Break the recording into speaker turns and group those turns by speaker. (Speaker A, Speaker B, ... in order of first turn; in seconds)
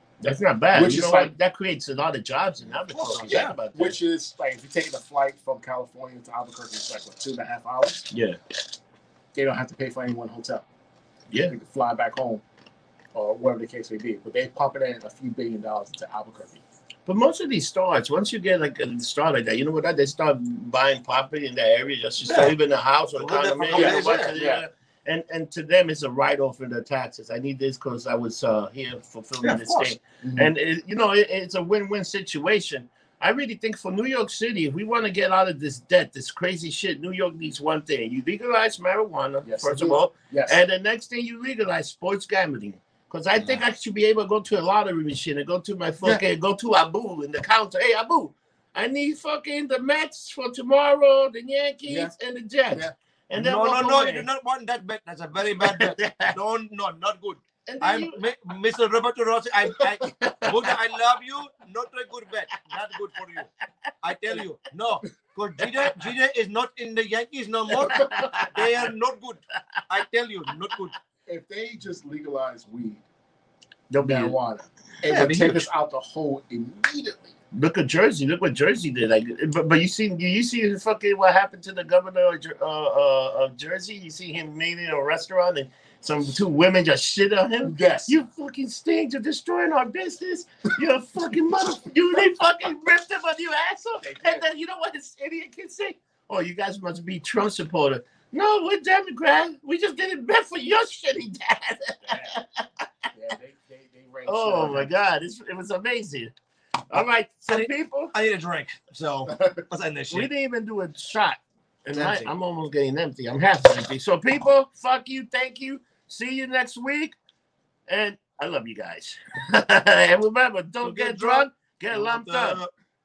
Speaker A: 0.2-4.0, 8.1-8.4, 17.1-54.3, 55.6-56.4, 57.7-58.2, 59.7-60.8, 67.7-68.8, 73.9-74.4, 77.5-102.8, 104.2-106.3, 106.9-108.1, 110.1-117.2, 117.9-122.6
Speaker B: 0.7-1.3, 3.0-8.1, 9.3-10.7, 11.5-12.4, 13.1-16.6, 23.7-24.6, 30.2-30.5, 39.4-40.6, 51.9-52.1, 71.3-73.0, 74.0-77.3, 87.6-88.1, 94.0-94.4, 102.1-102.4, 103.1-104.9
Speaker C: 3.2-3.5, 22.2-22.6, 23.2-24.3, 29.4-29.9, 53.3-63.5, 64.0-70.9, 75.0-75.7, 107.5-110.3, 111.9-112.3, 120.8-122.7